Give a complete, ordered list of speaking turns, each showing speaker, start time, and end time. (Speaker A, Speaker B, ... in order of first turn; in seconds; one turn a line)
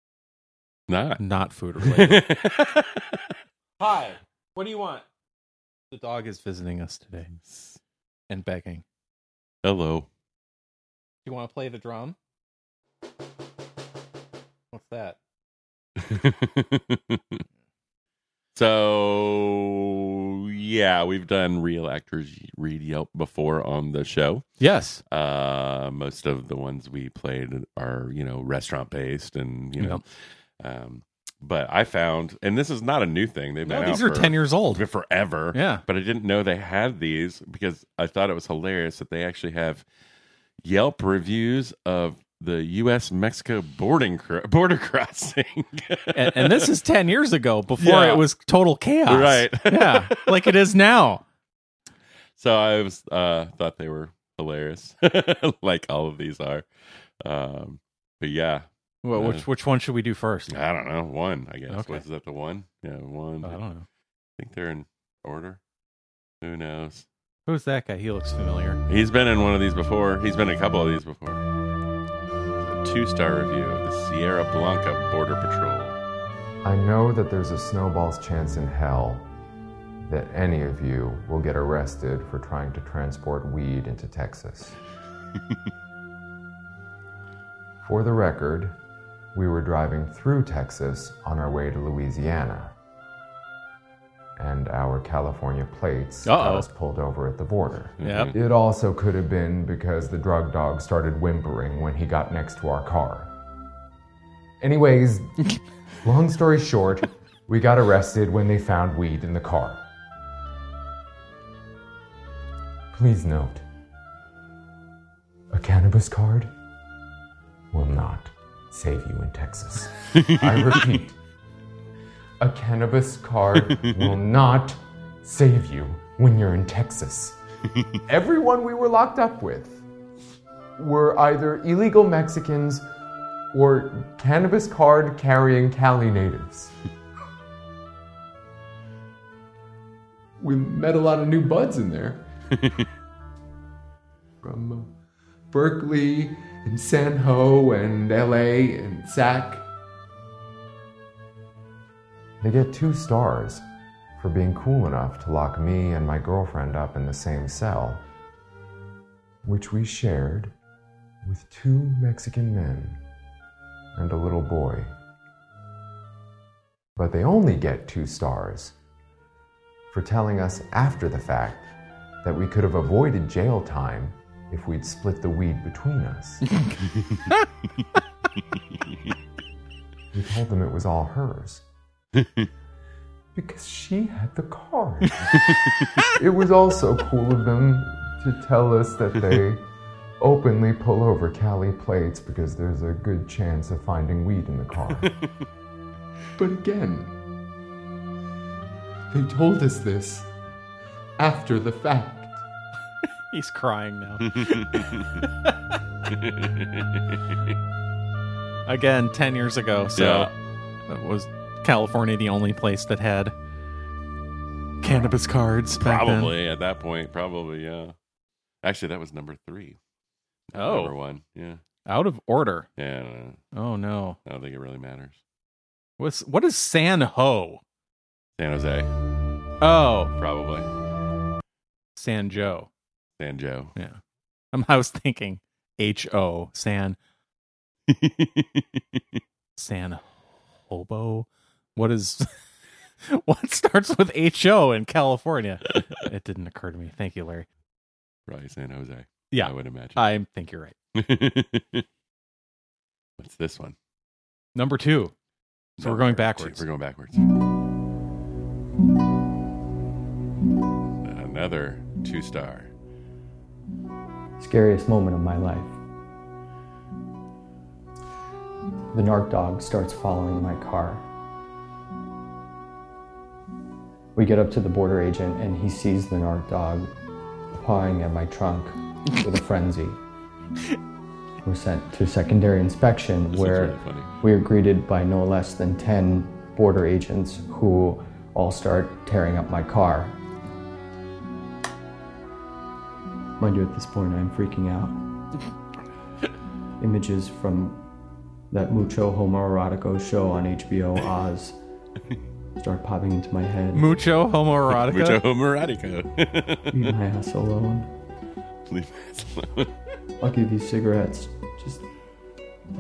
Speaker A: 0.9-1.2
Speaker B: 1.2-2.3
Speaker A: 1.8-3.4
Speaker B: 3.8-5.0
Speaker B: 5.9-7.3
Speaker A: 7.5-7.8
Speaker B: 8.3-8.8
Speaker A: 9.6-10.1
Speaker B: 11.2-12.2
Speaker B: 14.7-15.2
Speaker A: 16.0-17.4
Speaker A: 18.6-24.5
Speaker B: 24.6-25.0
Speaker A: 25.1-30.0
Speaker A: 30.6-39.9
Speaker B: 33.6-34.8
Speaker B: 35.5-35.8
Speaker A: 40.6-46.7
Speaker B: 46.1-51.2
Speaker A: 47.8-48.2
Speaker A: 49.1-50.5
Speaker A: 52.4-56.7
Speaker A: 57.2-59.5
Speaker B: 59.0-60.5
Speaker A: 60.5-63.6
Speaker B: 61.7-62.0
Speaker B: 63.4-63.9
Speaker A: 64.4-65.6
Speaker A: 66.4-67.1
Speaker B: 67.5-68.8
Speaker A: 68.9-71.4
Speaker A: 72.6-76.0
Speaker C: 76.6-79.3
Speaker C: 80.1-84.8
Speaker C: 87.8-88.8
Speaker C: 89.3-92.7
Speaker C: 94.4-103.3
Speaker B: 96.2-96.7
Speaker A: 98.0-98.4
Speaker B: 98.0-98.3
Speaker C: 104.6-105.5
Speaker C: 106.0-109.8
Speaker C: 112.9-113.6
Speaker C: 115.5-116.5
Speaker C: 117.7-121.2
Speaker A: 120.1-120.7
Speaker C: 122.4-127.4
Speaker C: 128.1-129.8
Speaker C: 130.8-132.9
Speaker C: 133.5-136.7
Speaker C: 140.4-142.3
Speaker C: 144.4-144.9
Speaker C: 145.5-149.7
Speaker C: 152.4-153.6
Speaker C: 154.2-158.0
Speaker C: 159.4-160.5
Speaker C: 161.2-163.0
Speaker C: 163.9-164.9
Speaker C: 167.0-168.7
Speaker C: 169.9-176.6
Speaker C: 180.1-181.6
Speaker A: 182.2-182.5
Speaker C: 183.3-185.5
Speaker C: 186.0-189.6
Speaker C: 190.2-195.1
Speaker C: 196.4-197.2
Speaker C: 199.1-200.3
Speaker C: 201.2-202.4
Speaker B: 203.3-205.7
Speaker A: 204.2-205.2
Speaker A: 206.1-207.6
Speaker B: 208.7-210.3
Speaker A: 210.0-210.3
Speaker B: 210.9-213.3
Speaker B: 214.8-216.3
Speaker A: 215.8-217.9
Speaker A: 218.6-219.8
Speaker A: 220.5-221.6
Speaker B: 220.6-220.9
Speaker B: 221.9-222.7
Speaker A: 222.8-223.4
Speaker B: 223.5-224.2
Speaker A: 224.2-225.2
Speaker B: 226.0-227.6
Speaker A: 228.4-228.9
Speaker B: 229.6-230.1
Speaker A: 230.2-230.7
Speaker B: 231.9-232.7
Speaker A: 233.2-233.7
Speaker B: 234.5-237.0
Speaker A: 237.9-239.2
Speaker B: 239.6-242.3
Speaker B: 243.0-247.5
Speaker A: 248.3-250.0
Speaker B: 249.3-250.8
Speaker A: 250.9-251.9
Speaker A: 253.2-253.8
Speaker B: 254.6-255.1
Speaker B: 255.8-256.6
Speaker A: 255.8-257.3
Speaker A: 261.0-262.7
Speaker D: 264.4-265.8
Speaker D: 268.9-271.1
Speaker D: 274.2-276.9
Speaker D: 277.5-280.0
Speaker D: 281.4-290.2
Speaker A: 283.3-284.1
Speaker D: 293.4-295.0
Speaker D: 296.8-297.8
Speaker D: 298.5-301.6
Speaker D: 302.6-303.9
Speaker B: 303.7-305.2
Speaker A: 304.7-306.9
Speaker D: 306.7-307.9
Speaker A: 308.7-309.7
Speaker D: 310.2-311.9